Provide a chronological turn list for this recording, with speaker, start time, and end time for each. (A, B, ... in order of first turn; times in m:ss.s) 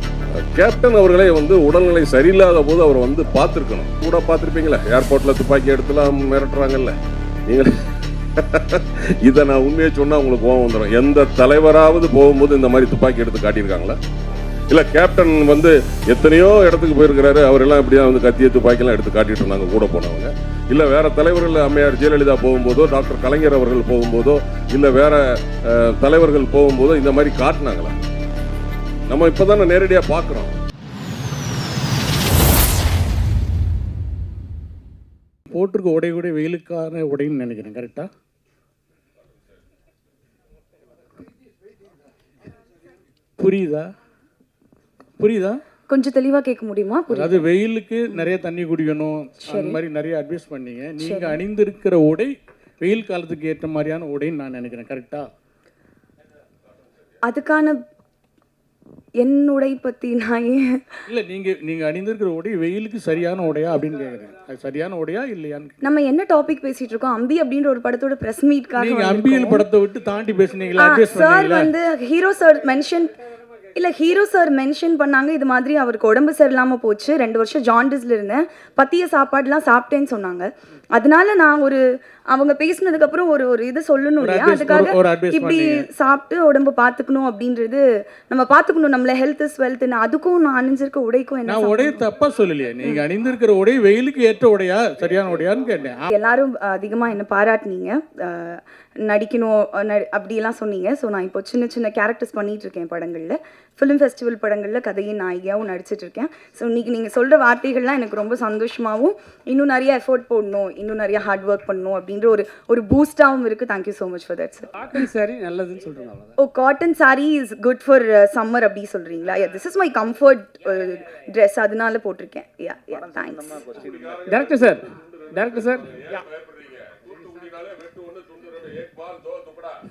0:00.5-0:07.0 A
0:08.4-0:14.0 A
0:14.7-0:27.9 A
0:29.1-0:30.6 A
0:35.5-0:38.1 B
0:43.4-0:43.9 B
0:45.2-0:45.6 B
0:45.9-0:47.4 C
0:47.1-0:55.3 B
0:49.4-0:49.8 C
0:51.0-0:51.4 C
0:57.2-0:57.8 C
0:59.2-1:00.8 C
1:01.1-1:05.7 B
1:05.8-1:09.6 C
1:08.8-1:11.7 B
1:10.8-1:13.1 C
1:13.8-1:32.1 C
1:24.2-1:25.9 B
1:31.5-1:36.1 B
1:36.1-1:55.1 C
1:54.8-1:56.3 D
1:56.4-2:03.7 C
2:04.3-2:05.9 D
2:07.2-2:09.7 A